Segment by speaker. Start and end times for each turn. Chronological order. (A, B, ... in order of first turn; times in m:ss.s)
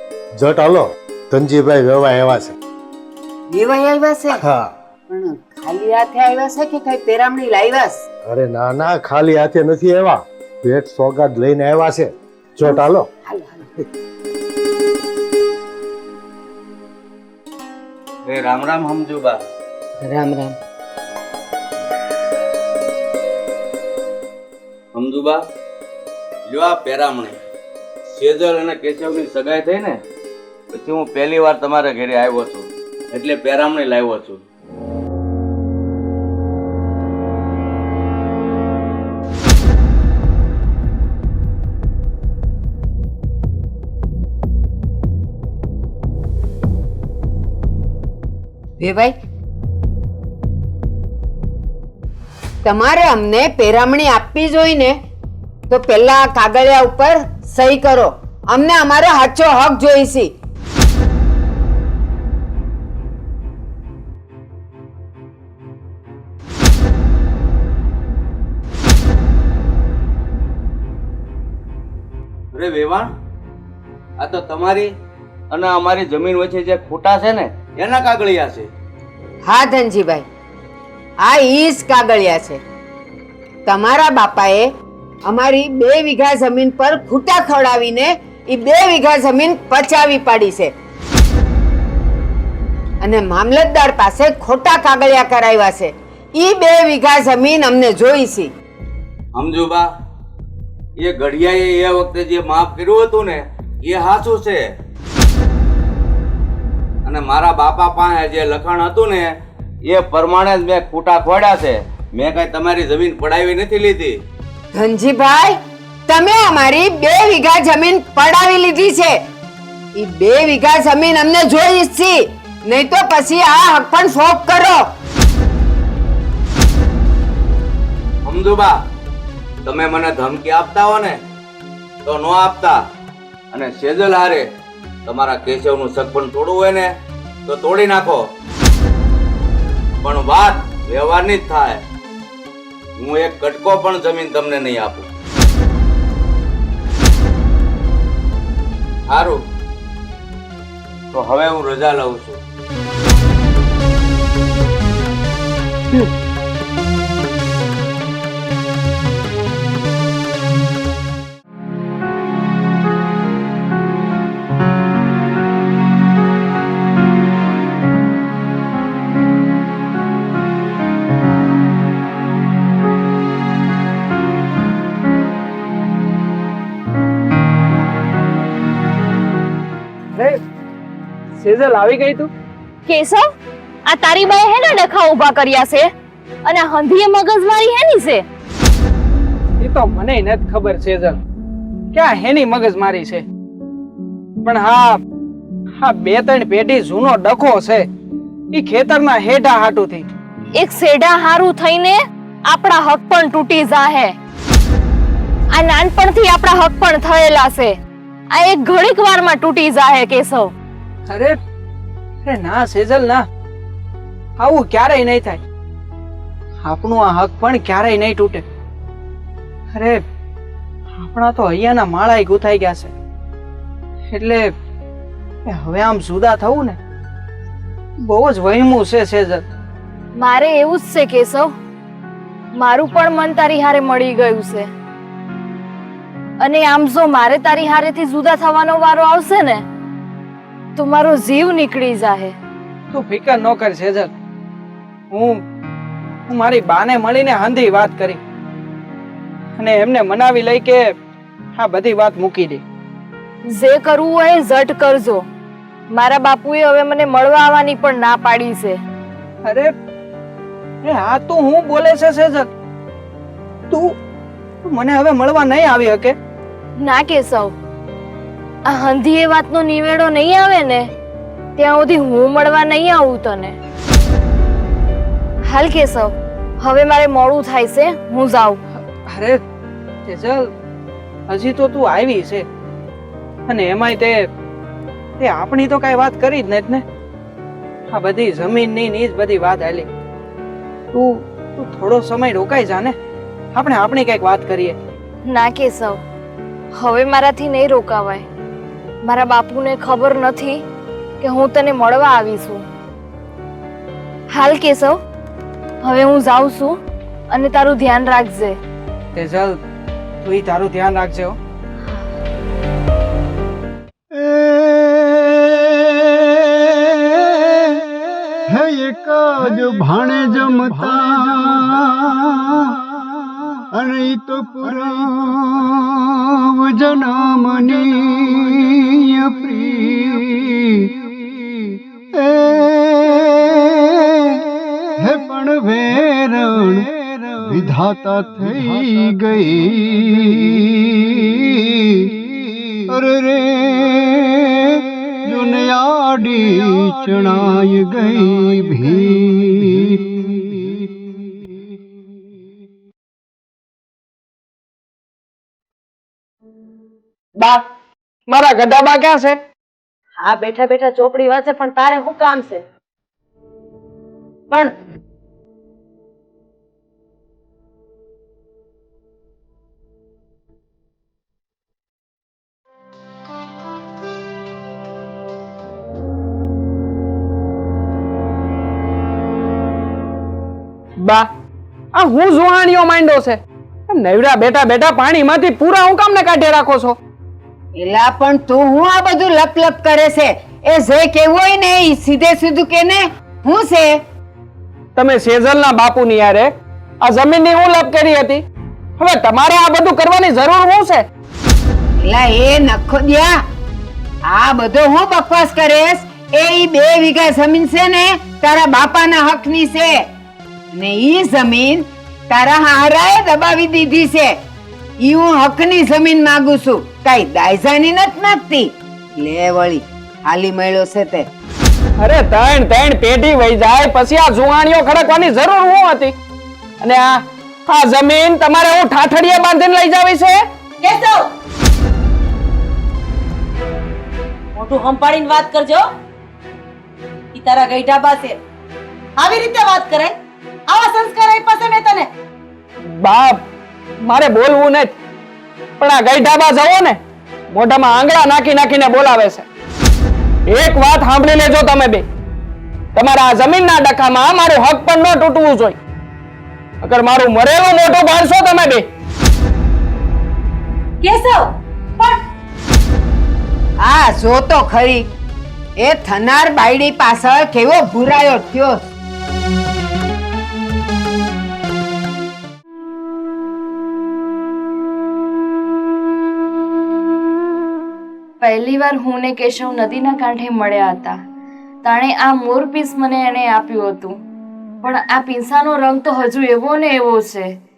0:00.4-0:02.5 A
0:03.5-0:04.4 B
0:04.4-0:04.7 A
0:05.1-0:08.0 B
0:08.2-0:13.1 A
0:12.6-0:13.6 B
0:18.2-0:19.4 C
0:20.0-0:20.5 B
0:24.9-0:25.4 C
0:26.5-0:27.3 C
0:28.1-0:30.0 C
0:30.7-0:34.4 C
0:48.8-0:49.2 B
0:52.6-0:55.0 B
0:55.7-1:00.3 B
1:12.5-1:13.1 C
1:14.2-1:14.9 C
1:15.5-1:18.7 C
1:19.4-1:20.2 B
1:21.2-1:22.6 B
1:23.6-1:24.7 B
1:25.2-1:30.7 B
1:33.0-1:38.5 B
1:39.3-1:39.9 C
1:41.0-1:44.6 C
1:47.0-1:49.3 C
1:49.8-1:54.2 C
1:54.7-1:59.2 B
1:59.9-2:04.8 B
2:08.2-2:08.7 C
2:09.6-2:11.2 C
2:12.0-2:12.8 C
2:13.5-2:14.4 C
2:15.0-2:16.9 C
2:17.5-2:18.2 C
2:20.0-2:21.8 C
2:23.0-2:25.1 C
2:29.1-2:29.4 C
2:31.1-2:32.4 C
3:01.4-3:02.3 D
3:02.9-3:03.3 E
3:03.8-3:05.9 E
3:06.4-3:08.2 E
3:09.6-3:11.2 D
3:11.9-3:13.2 D
3:14.4-3:15.0 D
3:15.8-3:17.8 D
3:18.5-3:20.1 D
3:20.6-3:24.2 E
3:25.5-3:27.8 E
3:28.3-3:30.5 E
3:31.1-3:31.4 D
3:32.2-3:33.2 D
3:34.4-3:35.4 D
3:36.6-3:38.4 D
3:39.7-3:40.0 D
3:41.0-3:42.9 D
3:44.1-3:44.5 D
3:45.5-3:46.8 D
3:48.0-3:49.4 D
3:50.2-3:51.5 E
3:52.6-3:54.7 E
3:56.4-3:59.6 E
4:00.8-4:02.3 E
4:02.9-4:04.1 D
4:05.1-4:05.4 D
4:06.3-4:08.2 D
4:09.6-4:10.8 D
4:11.6-4:12.6 D
4:13.5-4:15.2 E
4:15.9-4:18.8 E
4:19.4-4:19.7 D
4:20.8-4:22.5 D
4:24.6-4:26.1 D
4:26.8-4:27.5 E
4:28.7-4:30.9 E
4:31.6-4:33.6 E
4:35.5-4:38.6 E
4:39.1-4:39.4 D
4:40.1-4:40.4 D
4:41.3-4:42.4 D
4:43.5-4:44.3 D
4:45.2-4:46.8 D
4:47.9-4:49.9 D
4:50.9-4:52.9 D
4:53.5-4:54.8 D
4:55.2-4:56.0 E
4:56.7-4:58.2 E
4:59.0-5:00.6 E
5:01.2-5:02.6 E
5:04.3-5:05.0 E
5:05.8-5:06.8 E
5:07.3-5:08.6 E
5:09.2-5:09.6 D
5:10.2-5:11.4 D
5:14.2-5:15.3 F
5:18.5-5:22.7 F
5:23.7-5:30.9 F
5:32.2-5:33.4 F
5:35.0-5:42.0 F
5:42.9-5:50.9 F
5:57.4-5:57.6 G
5:58.3-5:59.4 G
6:00.2-6:02.6 H
6:21.0-6:21.3 G
6:21.9-6:27.0 G
6:27.7-6:34.0 B
6:35.0-6:38.4 G
6:39.0-6:41.1 G
6:42.0-6:43.4 B
6:44.2-6:50.1 B
6:50.7-6:54.4 B
6:55.0-7:01.3 B
7:02.0-7:06.1 G
7:06.8-7:10.4 G
7:10.8-7:11.3 H
7:14.6-7:15.9 H
7:17.3-7:18.4 H
7:19.2-7:20.2 H
7:20.7-7:22.1 H
7:22.8-7:23.4 G
7:24.0-7:24.9 G
7:25.8-7:27.0 G
7:27.5-7:29.4 G
7:30.4-7:32.0 G
7:32.9-7:35.8 G
7:36.8-7:38.9 G
7:41.0-7:41.5 H
7:43.8-7:45.1 B
7:45.8-7:48.9 B
7:58.4-8:01.2 E
8:01.8-8:04.2 E
8:04.8-8:07.5 E